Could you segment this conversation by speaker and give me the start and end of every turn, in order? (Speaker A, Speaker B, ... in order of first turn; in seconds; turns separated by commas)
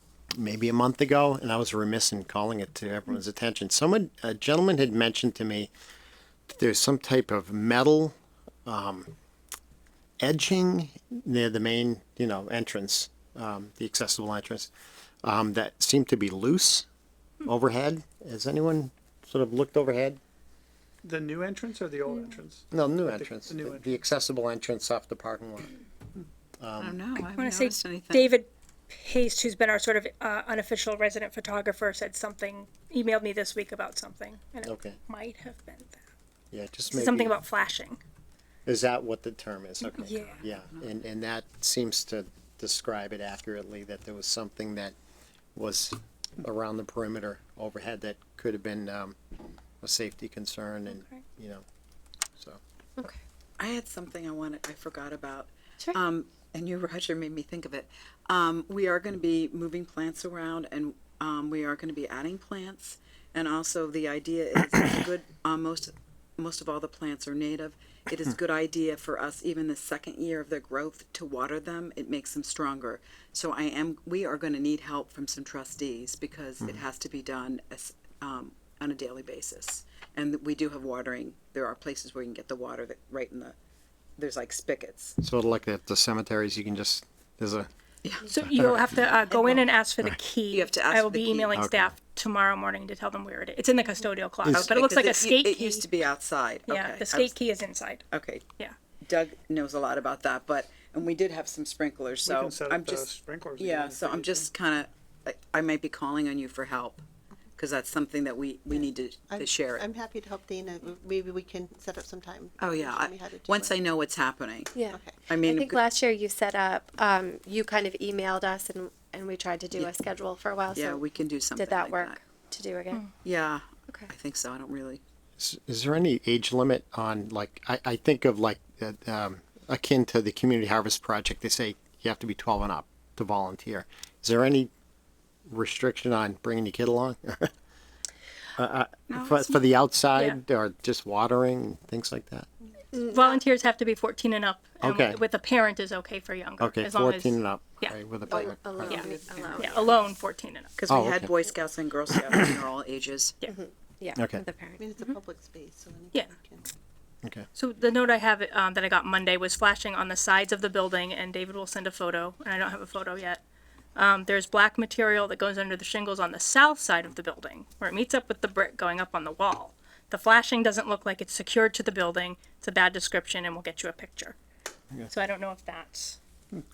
Speaker A: 0.4-5.7, Speaker A: 6.5-8.2, Speaker A: 8.7-9.1, Speaker A: 10.2-14.7, Speaker A: 15.2-16.9, Speaker A: 17.4-20.2, Speaker B: 21.0-23.9, Speaker A: 22.7-25.8, Speaker A: 26.6-27.0, Speaker C: 26.8-28.3, Speaker D: 27.4-36.0, Speaker A: 34.6-35.0, Speaker A: 36.5-37.3, Speaker D: 36.9-38.0, Speaker A: 38.7-45.0, Speaker D: 39.8-40.5, Speaker A: 45.5-49.2, Speaker A: 49.8-51.6, Speaker D: 50.9-51.2, Speaker C: 53.6-83.6, Speaker C: 84.2-85.2, Speaker A: 85.2-87.7, Speaker C: 88.0-88.3, Speaker D: 88.3-95.9, Speaker A: 88.4-89.0, Speaker C: 90.5-91.5, Speaker A: 91.5-91.9, Speaker A: 94.4-94.7, Speaker C: 94.5-97.4, Speaker D: 96.7-98.1, Speaker C: 98.1-98.5, Speaker C: 99.0-107.0, Speaker B: 102.3-104.5, Speaker C: 107.6-109.9, Speaker E: 108.7-113.8, Speaker C: 112.6-115.8, Speaker F: 114.8-121.0, Speaker E: 114.9-115.2, Speaker C: 120.7-122.2, Speaker F: 121.6-123.0, Speaker C: 123.2-125.0, Speaker A: 125.4-134.7, Speaker A: 135.5-137.5, Speaker A: 138.6-142.5, Speaker C: 139.1-139.6, Speaker F: 142.9-143.4, Speaker D: 143.1-147.9, Speaker A: 144.8-145.2, Speaker A: 146.6-149.1, Speaker F: 148.3-149.8, Speaker E: 148.3-149.9, Speaker D: 149.6-150.7, Speaker C: 150.8-153.4, Speaker A: 150.9-151.3, Speaker F: 153.5-154.9, Speaker A: 154.2-154.4, Speaker E: 154.8-156.7, Speaker D: 157.6-163.4, Speaker D: 164.0-174.4, Speaker D: 175.1-176.2